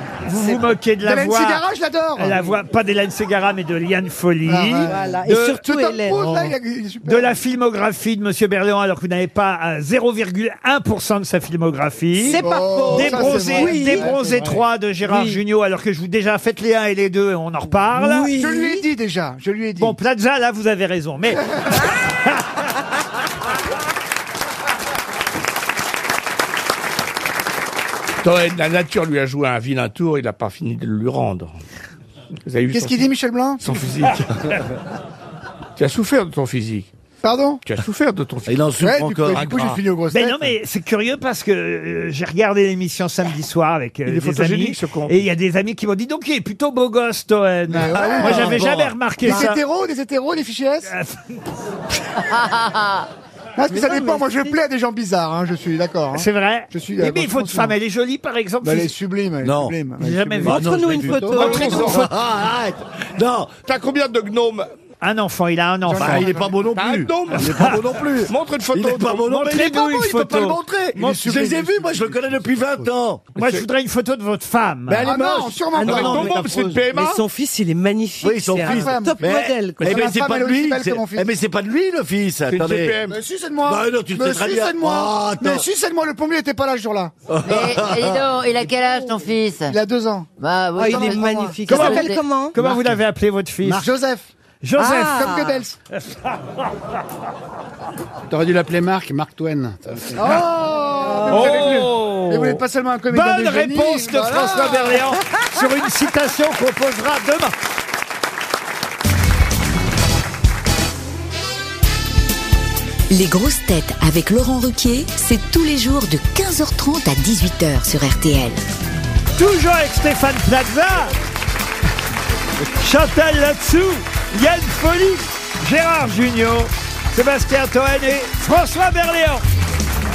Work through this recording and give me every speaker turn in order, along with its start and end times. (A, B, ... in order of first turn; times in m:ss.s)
0:00.2-0:01.6 A
0:01.0-0:02.4 B
0:02.2-0:04.9 A
0:04.5-0:07.3 B
0:04.9-0:06.3 C
0:07.0-0:18.3 A
0:12.2-0:14.3 C
0:12.3-0:14.5 B
0:15.0-0:15.4 C
0:17.9-0:18.8 C
0:18.3-0:20.0 B
0:19.8-0:22.4 A
0:28.2-0:31.6 D
0:32.5-0:33.0 D
0:32.7-0:33.8 B
0:33.6-0:34.6 D
0:35.8-0:36.9 D
0:37.2-0:37.6 B
0:37.6-0:38.6 D
0:38.5-0:39.8 E
0:38.8-0:40.5 B
0:39.3-0:39.8 D
0:40.1-0:49.6 A
0:44.0-0:45.3 D
0:47.7-0:48.6 B
0:47.9-0:49.4 E
0:49.2-0:50.9 B
0:50.9-0:51.4 A
0:52.2-0:53.1 F
0:53.6-0:57.8 B
0:53.7-0:54.5 C
0:56.1-0:58.9 A
0:58.6-1:00.6 B
0:59.4-0:59.8 E
1:00.0-1:00.6 A
1:00.4-1:03.6 E
1:00.4-1:02.0 C
1:01.0-1:01.4 G
1:01.3-1:02.1 D
1:01.4-1:02.1 A
1:03.6-1:04.7 D
1:05.0-1:06.3 A
1:05.9-1:06.6 B
1:06.0-1:13.3 E
1:06.7-1:09.5 D
1:07.4-1:07.8 A
1:09.3-1:10.6 A
1:11.0-1:11.8 B
1:12.4-1:12.9 G
1:13.4-1:15.1 A
1:13.4-1:13.6 D
1:14.9-1:16.6 E
1:15.0-1:16.5 B
1:15.7-1:16.3 C
1:15.8-1:17.2 D
1:16.6-1:16.9 G
1:16.9-1:20.1 C
1:18.2-1:23.0 E
1:18.6-1:21.3 B
1:19.8-1:20.0 D
1:22.5-1:23.2 D
1:23.1-1:27.1 B
1:23.6-1:25.6 E
1:27.3-1:28.2 E
1:27.4-1:29.8 F
1:29.7-1:32.0 B
1:30.4-1:32.2 F
1:30.8-1:32.6 C
1:31.7-1:33.9 A
1:32.6-1:33.0 G
1:33.6-1:34.3 B
1:34.6-1:36.6 A
1:34.8-1:35.6 C
1:35.0-1:35.7 B
1:38.3-1:40.5 G
1:40.2-1:45.1 B
1:41.0-1:41.6 C
1:41.3-1:47.5 A
1:53.1-1:58.6 H
1:59.4-2:01.1 A
2:02.8-2:09.4 A